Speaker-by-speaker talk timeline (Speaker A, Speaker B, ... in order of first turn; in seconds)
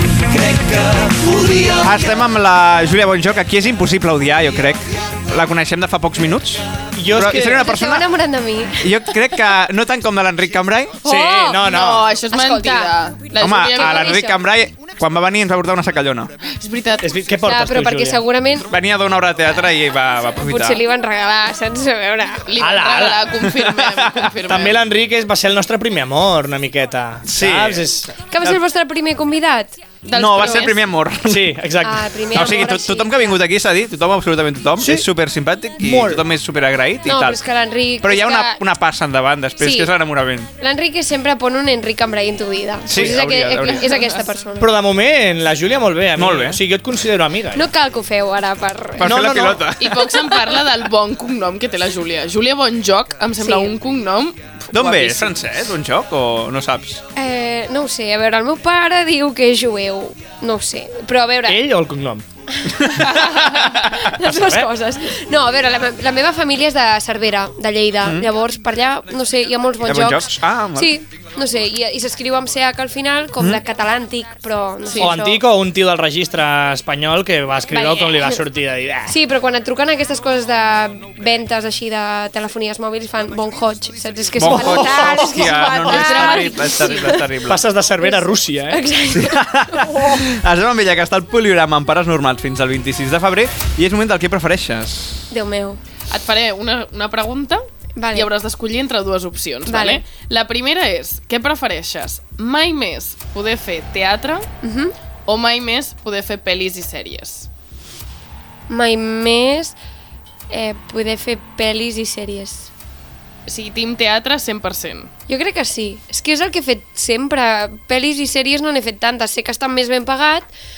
Speaker A: 0.4-1.8, 7.0-7.7, 11.0-12.1, 17.0-18.2, 22.6-23.4, 24.5-28.1, 31.3-32.1, 34.8-35.1, 35.8-36.2, 44.6-47.7, 49.0-49.7, 61.5-62.2, 64.3-64.7, 75.0-79.2, 84.4-86.4, 87.3-88.8
Speaker B: 1.8-8.1, 8.8-11.0, 13.4-16.3, 18.7-20.8, 23.4-24.3, 27.3-27.9, 30.1-31.6, 32.3-37.4, 38.0-40.5, 42.9-44.1, 46.2-46.6, 49.0-50.1, 54.7-57.0, 62.8-64.0, 68.0-68.3, 69.8-70.9, 84.4-87.7, 89.1-95.3
Speaker C: 7.5-9.0, 11.0-11.8, 12.3-14.4, 17.4-18.7, 20.4-22.6, 28.2-29.8, 31.8-33.4, 37.0-38.6, 39.6-39.9, 40.6-44.7, 47.5-49.2, 53.4-53.7, 57.1-61.6, 62.6-75.4, 77.7-78.4, 79.1-87.3, 88.0-90.3, 95.3-95.8, 98.0-98.3, 99.7-100.0, 104.6-104.9, 108.7-109.8, 110.5-112.7, 115.3-120.5
Speaker D: 11.6-14.2, 16.5-17.1, 22.5-24.8, 30.1-30.8, 43.6-44.1, 49.8-55.3, 96.1-104.5, 105.3-107.5, 113.5-115.1